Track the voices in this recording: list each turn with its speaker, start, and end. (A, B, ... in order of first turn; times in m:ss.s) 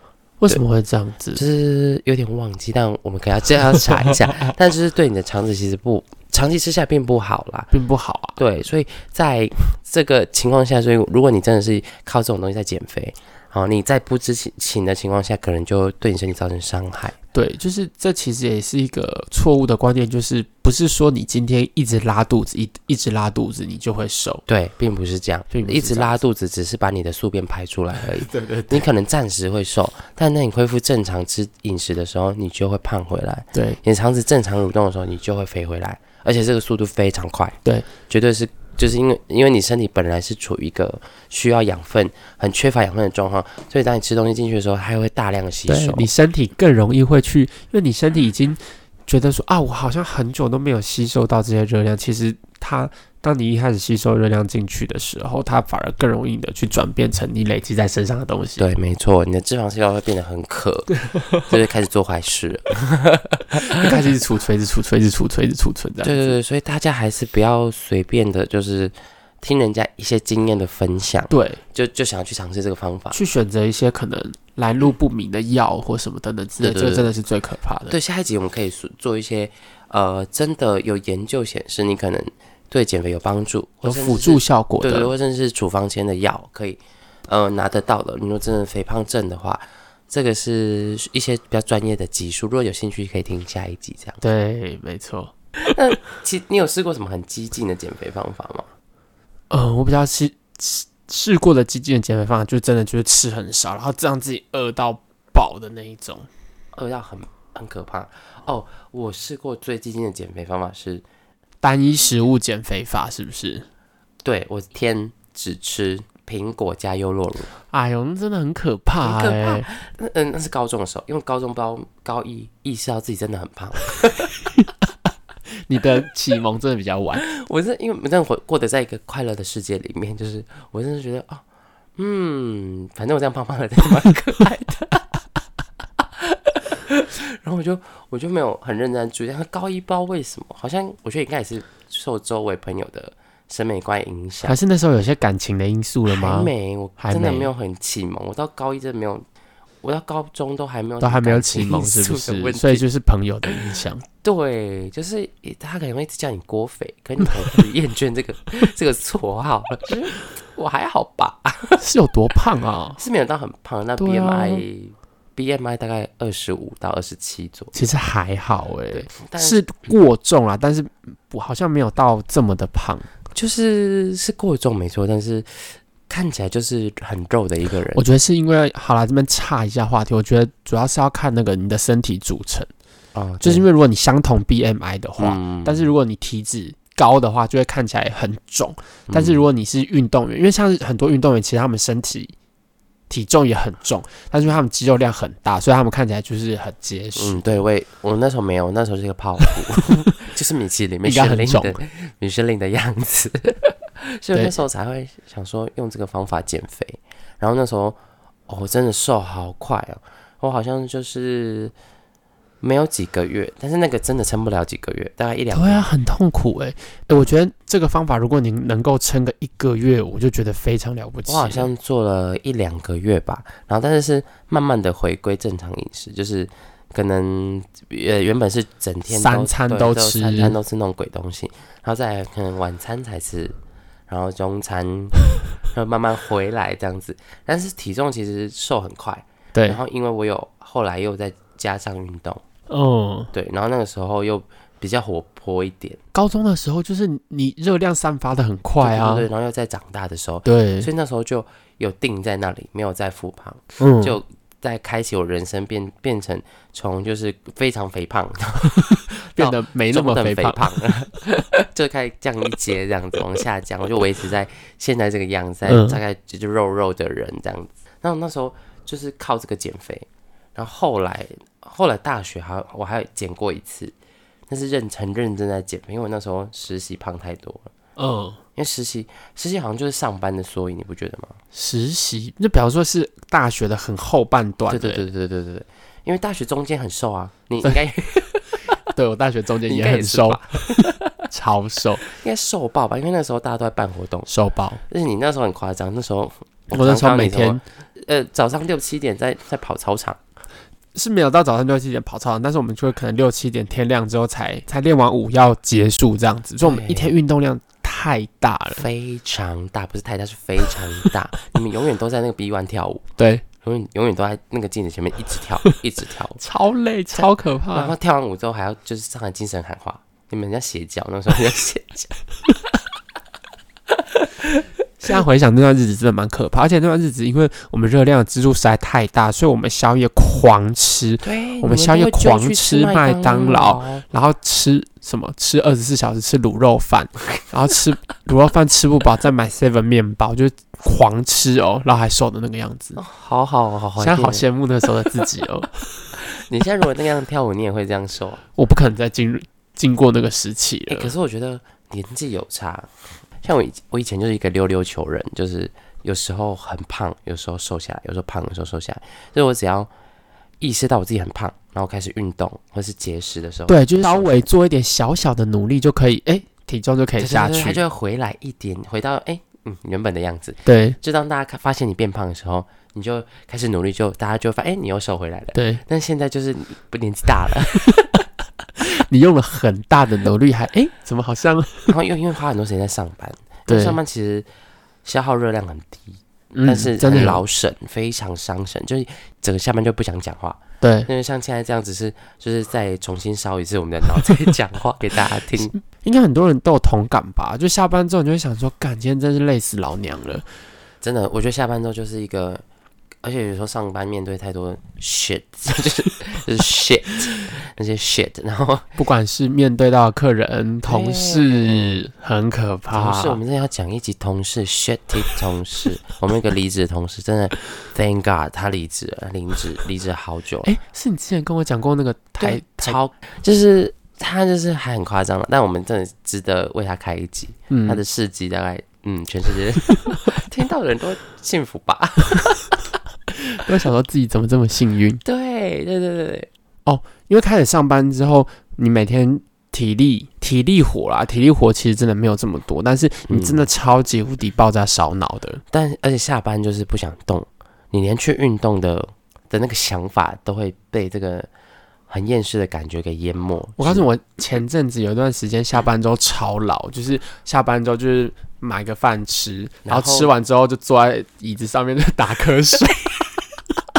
0:00.4-0:01.4 A
0:01.3-0:07.7 B
0:07.7-0:08.4 A
0:08.4-0:17.2 B
0:17.3-0:24.4 A
0:24.5-0:37.6 B
0:25.5-0:26.2 A
0:28.0-0:28.8 A
0:33.5-0:33.8 A
0:38.1-0:46.1 B
0:45.7-0:58.7 A
0:58.6-1:03.9 B
1:01.0-1:01.5 A
1:03.6-1:06.3 A
1:06.0-1:13.2 B
1:11.3-1:11.6 A
1:13.1-1:18.0 A
1:16.6-1:17.1 B
1:17.9-1:34.2 B
1:23.8-1:25.1 A
1:34.2-1:35.3 A
1:35.7-1:38.7 B
1:39.5-1:46.3 A
1:46.7-1:51.0 B
1:51.6-1:53.6 A
1:54.2-1:57.5 B
1:57.7-1:59.7 A
1:59.0-2:04.3 B
2:05.6-2:07.2 A
2:07.2-2:11.4 B
2:12.0-2:15.2 B
2:16.0-2:24.6 B
2:24.4-2:27.5 A
2:26.1-2:29.2 B
2:29.8-2:32.8 B
2:31.0-2:34.0 A
2:34.2-2:41.8 B
2:41.8-2:43.0 A
2:43.0-2:47.7 B
2:44.0-2:44.6 A
2:47.7-2:53.1 A
2:48.9-2:49.6 B
2:53.3-2:58.0 B
2:57.9-3:02.7 A
3:03.1-3:03.6 B
3:03.4-3:12.3 A
3:05.2-3:05.9 B
3:09.1-3:09.4 B
3:13.1-3:17.6 A
3:17.2-3:31.7 B
3:21.0-3:21.8 A
3:32.6-3:35.9 B
3:35.5-3:41.7 A
3:41.3-3:53.5 B
3:49.1-3:50.6 A
3:54.1-4:02.4 B
3:59.5-3:59.8 A
4:02.7-4:03.3 A
4:03.3-4:06.0 B
4:06.1-4:09.3 A
4:08.8-4:33.9 B
4:10.4-4:10.9 A
4:13.8-4:14.2 A
4:18.8-4:20.8 A
4:25.7-4:26.0 A
4:34.5-4:37.7 B
4:38.0-4:38.4 A
4:38.6-4:41.4 B
4:41.5-4:45.0 A
4:44.7-4:48.4 B
4:48.9-4:52.0 A
4:49.7-4:51.1 B
4:52.1-4:54.3 B
4:54.3-4:54.8 A
4:54.9-5:00.2 B
4:56.7-4:57.6 A
5:00.9-5:08.8 A
5:06.6-5:07.1 B
5:08.8-5:13.0 B
5:13.2-5:13.4 A
5:13.6-5:16.4 B
5:16.4-5:17.9 A
5:17.1-5:22.1 B
5:25.0-5:43.0 A
5:31.2-5:34.0 B
5:43.0-5:44.4 B
5:44.0-5:45.7 A
5:46.2-5:48.4 B
5:48.6-5:51.1 A
5:50.9-5:52.9 B
5:53.4-5:59.9 B
6:00.6-6:04.4 B
6:03.7-6:07.8 A
6:07.2-6:18.1 B
6:10.6-6:11.0 A
6:15.5-6:15.8 A
6:17.7-6:18.1 A
6:18.8-6:21.9 A
6:21.9-6:24.4 B
6:23.7-6:24.0 A
6:25.0-6:35.7 B
6:26.5-6:27.4 A
6:30.8-6:31.1 A
6:35.6-6:40.4 A
6:41.0-6:42.6 B
6:43.2-6:48.9 B
6:49.0-6:53.4 A
6:50.8-6:52.0 B
6:52.9-7:00.7 B
7:00.6-7:03.0 A
7:02.4-7:12.5 B
7:07.7-7:08.0 A
7:09.9-7:10.2 A
7:13.3-7:15.2 A
7:15.2-7:16.5 B
7:16.8-7:25.6 A
7:23.3-7:23.7 B
7:25.7-7:31.5 B
7:32.1-7:34.0 B
7:33.8-7:43.4 A
7:39.8-7:40.3 B